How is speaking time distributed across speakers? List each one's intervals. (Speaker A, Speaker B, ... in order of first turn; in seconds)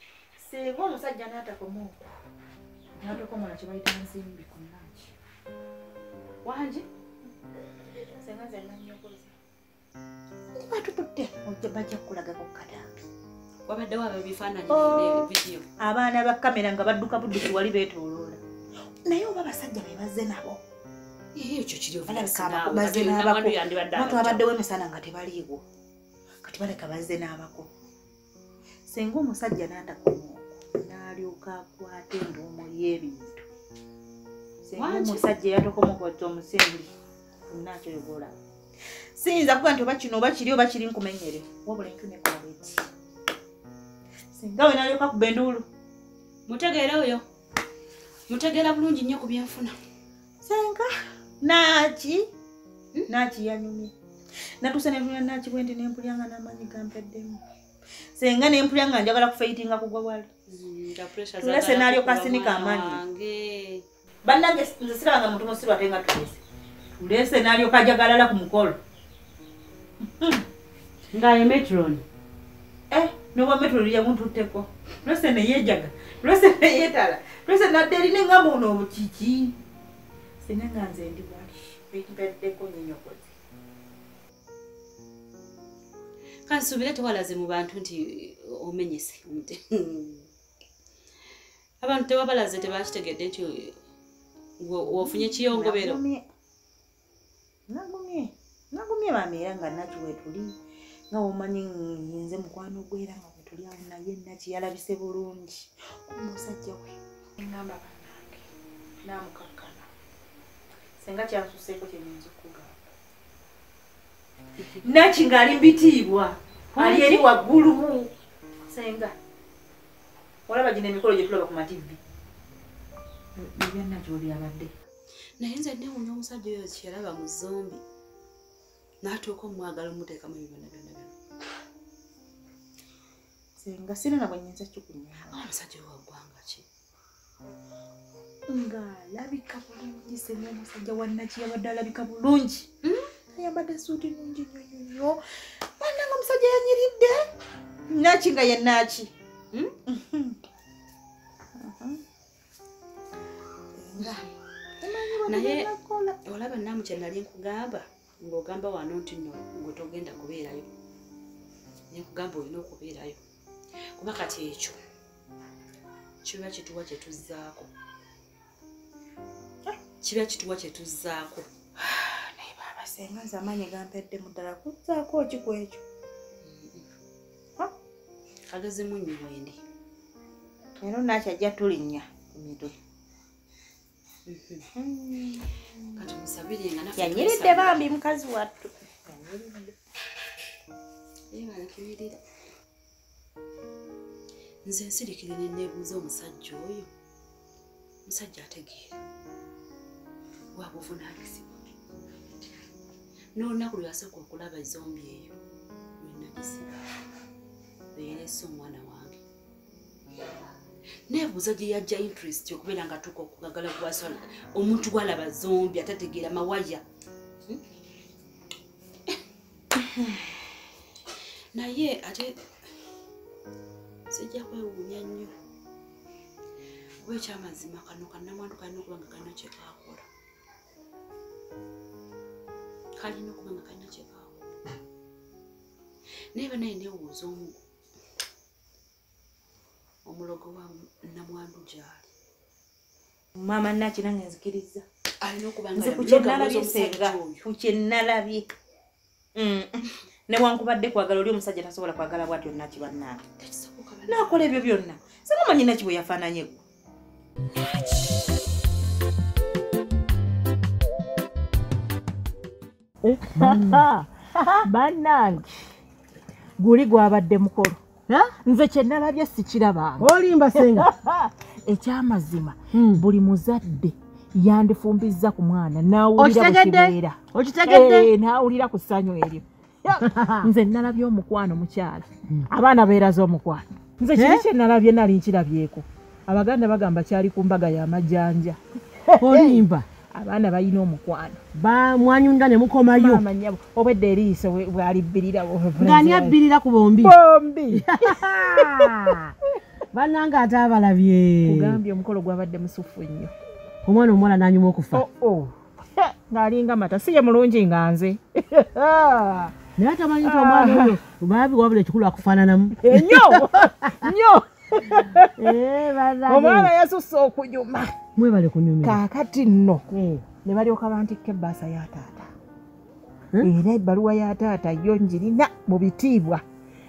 Speaker A: 0.4-2.1, 3.0-5.1, 8.0-9.3, 10.6-13.1, 14.7-15.2, 15.8-18.4, 19.1-20.6, 22.1-25.6, 26.4-27.7, 28.9-33.5, 34.6-36.9, 37.5-38.4, 39.2-42.9, 44.3-45.7, 50.4-50.9, 51.4-52.3, 53.1-53.9, 54.6-57.4, 58.2-60.3, 61.4-63.0, 64.2-66.4, 67.0-68.8, 70.0-70.4, 72.9-79.6, 80.4-83.3, 94.9-96.2, 97.7-100.5, 101.1-108.5, 109.0-109.9, 111.0-112.7, 114.7-118.1, 118.7-119.2, 120.5-122.0, 123.4-124.7, 133.6-135.5, 138.5-142.7, 143.3-147.2, 147.9-149.1, 149.9-150.4, 151.6-152.0, 153.7-154.3, 154.8-156.2, 171.8-175.8, 180.8-182.8, 184.7-186.0, 187.0-189.8, 243.4-244.9, 245.8-248.5, 249.4-253.2, 254.1-256.6
Speaker B: 6.4-6.9, 13.7-15.7, 21.4-24.5, 34.8-35.3, 46.5-47.2, 48.3-49.8, 60.5-63.8, 71.1-72.0, 86.5-90.3, 91.8-93.8, 94.6-96.0, 116.8-117.3, 125.4-127.8, 129.0-131.1, 135.3-136.7, 142.8-143.1, 155.3-155.7, 156.2-160.7, 161.9-163.2, 164.0-164.8, 166.2-167.7, 170.0-171.5, 176.4-176.8, 178.5-179.6, 184.3-184.7, 186.0-187.8, 191.3-192.2, 194.7-196.9, 198.1-198.9, 200.6-201.6, 203.4-205.4, 206.0-206.7, 207.9-209.2, 211.1-216.8, 221.6-222.3, 224.1-225.3, 227.0-230.1, 233.0-234.4, 236.3-237.6, 240.1-242.1, 245.2-247.4, 253.4-254.7
Speaker C: 263.1-264.7, 268.1-268.3, 270.0-270.9, 272.7-273.0, 276.2-278.1, 280.0-280.5, 284.2-284.5, 289.2-289.9, 291.6-293.2, 295.8-297.1, 297.7-299.3, 299.9-301.8, 303.9-305.1, 309.8-314.1, 315.4-316.7, 318.2-319.0, 319.9-320.3
Speaker D: 263.4-264.1, 264.6-265.6, 266.6-267.8, 268.4-291.4, 293.0-296.4, 297.0-299.0, 301.4-303.3, 304.9-309.5, 310.2-311.0, 312.8-315.5, 316.3-317.9, 318.8-322.3, 323.4-326.4